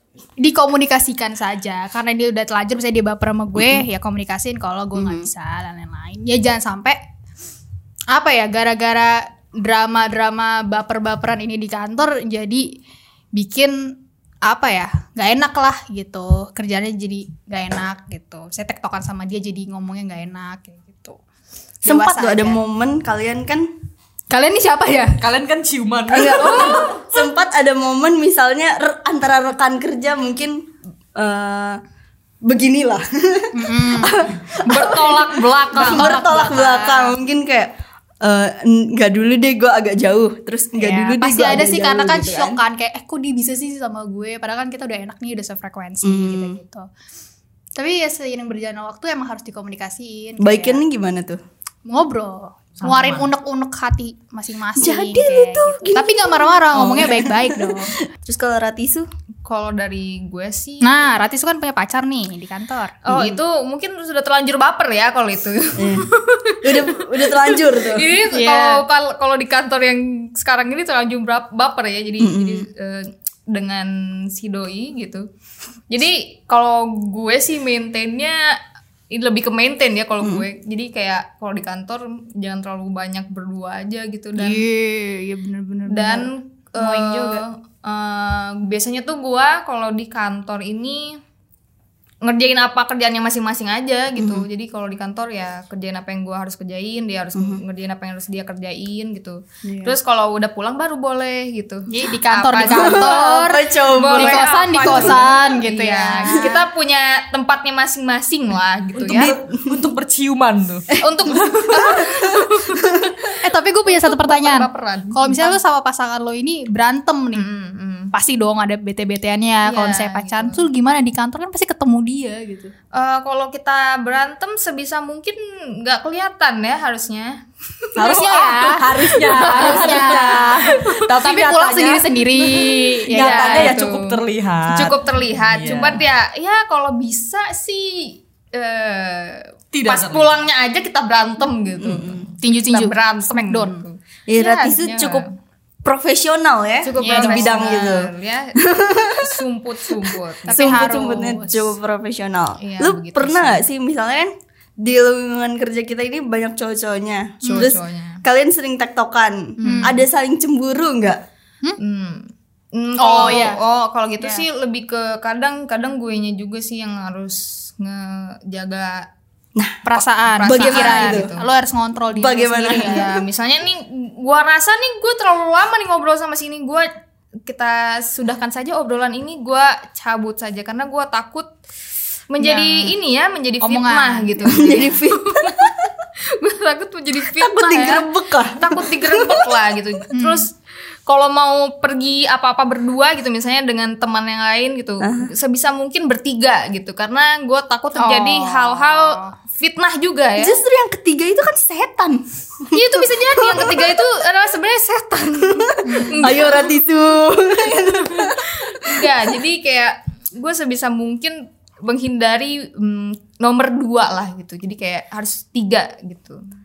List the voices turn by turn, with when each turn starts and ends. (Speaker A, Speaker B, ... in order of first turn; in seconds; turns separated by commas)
Speaker A: 0.4-7.0, Speaker B: 3.6-3.8, Speaker B: 4.9-5.3, Speaker A: 8.1-12.7, Speaker A: 13.3-21.2, Speaker A: 21.8-22.6, Speaker B: 21.9-23.7, Speaker A: 24.3-25.2, Speaker C: 25.2-27.0, Speaker B: 26.1-31.8, Speaker A: 26.5-26.8, Speaker B: 32.4-42.6, Speaker A: 33.5-34.3, Speaker D: 34.6-37.1, Speaker A: 35.9-36.6, Speaker A: 40.8-46.9, Speaker B: 46.0-46.6, Speaker A: 47.8-50.8, Speaker B: 50.4-51.4, Speaker A: 51.9-58.0, Speaker C: 52.8-53.3, Speaker B: 54.8-59.1, Speaker D: 59.5-61.1, Speaker A: 60.8-63.0, Speaker D: 63.0-75.3, Speaker B: 63.1-63.4, Speaker B: 65.8-68.2, Speaker A: 68.3-68.8, Speaker B: 72.2-72.7, Speaker D: 75.9-78.4, Speaker D: 79.1-84.6, Speaker A: 84.4-87.4, Speaker D: 85.9-91.2, Speaker D: 92.2-103.3, Speaker B: 94.2-94.5, Speaker B: 97.3-97.6, Speaker B: 99.7-100.0, Speaker A: 101.9-106.7, Speaker B: 102.6-105.3, Speaker D: 103.9-109.3, Speaker C: 109.0-112.2, Speaker B: 109.1-109.8, Speaker D: 111.0-112.7, Speaker B: 111.8-113.2, Speaker A: 113.4-117.5, Speaker D: 113.8-115.6, Speaker D: 117.3-118.1, Speaker A: 118.1-122.7, Speaker D: 119.6-120.7, Speaker D: 122.9-127.9, Speaker C: 128.0-136.0, Speaker A: 128.0-133.8, Speaker D: 129.4-130.9, Speaker D: 133.1-145.3, Speaker C: 139.7-140.3, Speaker B: 141.8-142.2, Speaker A: 142.4-143.8, Speaker B: 144.3-145.2, Speaker B: 145.8-148.1, Speaker D: 146.8-150.8, Speaker A: 147.0-147.9, Speaker B: 148.6-149.3, Speaker A: 150.5-151.7, Speaker B: 150.5-161.2, Speaker D: 152.6-153.6, Speaker A: 157.4-157.7, Speaker D: 157.4-158.2, Speaker D: 159.6-160.0, Speaker A: 159.6-159.9, Speaker D: 161.8-169.1, Speaker A: 163.0-163.6, Speaker A: 164.2-164.4, Speaker B: 169.6-169.8, Speaker A: 169.8-173.2, Speaker D: 170.2-171.5, Speaker B: 170.4-171.3, Speaker B: 172.1-173.1, Speaker D: 172.7-176.9, Speaker D: 177.5-181.5, Speaker D: 182.3-190.5, Speaker A: 182.4-182.9, Speaker A: 183.6-184.9, Speaker B: 184.5-185.9, Speaker B: 187.3-189.5, Speaker A: 190.1-190.5, Speaker D: 191.1-200.6, Speaker B: 195.0-195.3, Speaker A: 198.0-199.3, Speaker B: 200.4-203.9, Speaker D: 202.7-206.7, Speaker B: 205.7-209.1, Speaker A: 205.8-206.4, Speaker D: 208.2-216.4